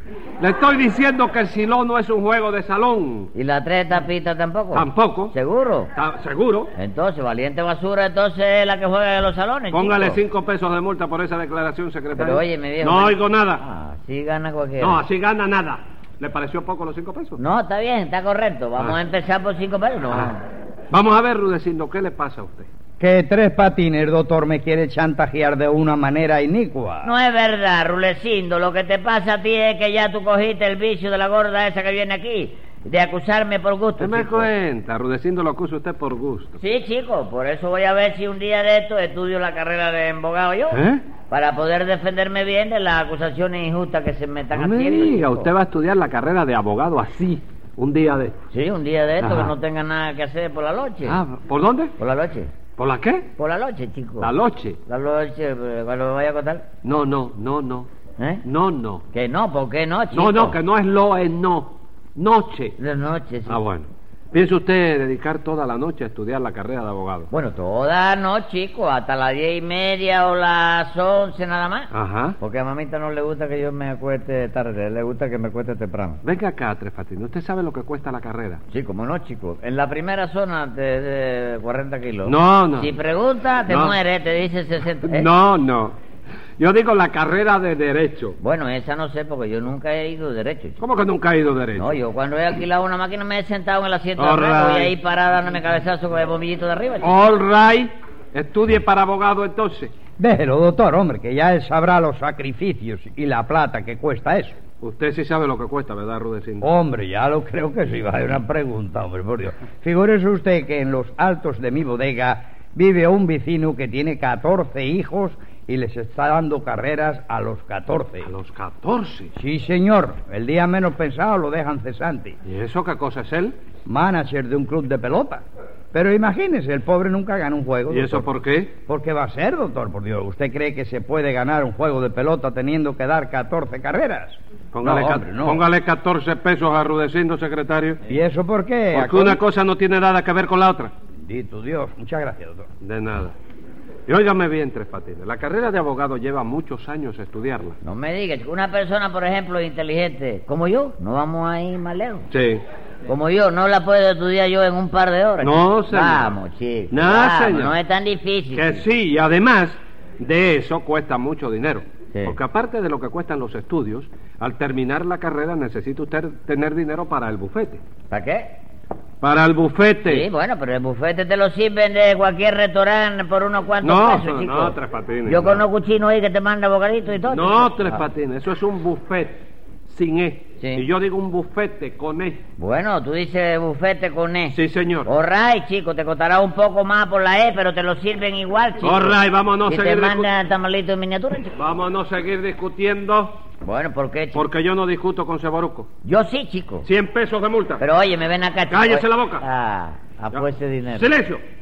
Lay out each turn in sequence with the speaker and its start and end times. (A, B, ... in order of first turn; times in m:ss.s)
0:00.4-0:03.3 A
0:03.4-0:05.9 B
0:04.7-0:05.4 A
0:06.0-0:06.7 A
0:06.8-0:10.2 B
0:09.7-0:13.6 A
0:12.1-0:15.0 B
0:14.8-0:17.4 A
0:17.4-0:20.4 B
0:20.9-0:22.7 A
0:23.0-0:27.1 C
0:27.0-0:34.5 B
0:34.0-0:36.6 A
0:36.6-0:45.5 B
0:40.7-0:41.0 A
0:44.5-0:48.4 A
0:48.5-0:51.2 B
0:49.2-0:49.5 A
0:51.1-0:51.9 A
0:52.0-0:52.5 B
0:52.8-0:53.3 A
0:53.4-0:54.3 B
0:54.2-0:54.8 A
0:54.9-0:56.6 B
0:56.8-0:57.9 A
0:58.2-0:58.4 B
0:58.4-0:59.0 A
0:59.1-1:00.6 B
1:00.1-1:02.8 A
1:02.8-1:03.6 B
1:03.4-1:07.3 A
1:07.3-1:16.2 B
1:11.9-1:12.4 A
1:16.2-1:18.6 A
1:18.7-1:25.3 B
1:22.2-1:22.9 A
1:23.7-1:24.0 A
1:25.0-1:26.0 A
1:26.6-1:28.4 A
1:28.4-1:30.8 B
1:30.8-1:32.0 A
1:31.8-1:37.1 B
1:34.2-1:34.9 A
1:37.0-1:39.9 A
1:40.2-1:44.6 C
1:44.8-1:46.7 A
1:46.6-1:58.3 C
1:58.2-1:59.3 A
1:59.4-2:02.4 C
2:02.4-2:03.6 A
2:03.9-2:08.2 C
2:07.9-2:08.7 A
2:08.9-2:15.6 C
2:14.7-2:18.0 A
2:18.1-2:19.4 C
2:18.9-2:20.9 A
2:21.2-2:22.7 C
2:22.8-2:23.4 A
2:24.1-2:27.8 A
2:27.8-2:32.3 B
2:32.3-2:32.6 A
2:33.1-2:38.8 B
2:35.4-2:36.3 A
2:36.9-2:37.8 A
2:38.5-2:47.8 A
2:48.1-2:48.6 B
2:49.2-2:50.3 A
2:50.0-2:58.0 B
2:53.8-2:55.6 A
2:57.3-3:02.4 A
3:00.6-3:00.9 B
3:02.6-3:11.6 B
3:04.5-3:05.1 A
3:08.8-3:10.3 A
3:11.6-3:13.4 A
3:13.6-3:14.5 B
3:14.3-3:15.9 A
3:16.0-3:16.9 B
3:16.8-3:17.8 A
3:17.8-3:21.1 B
3:18.7-3:19.4 A
3:20.3-3:21.4 A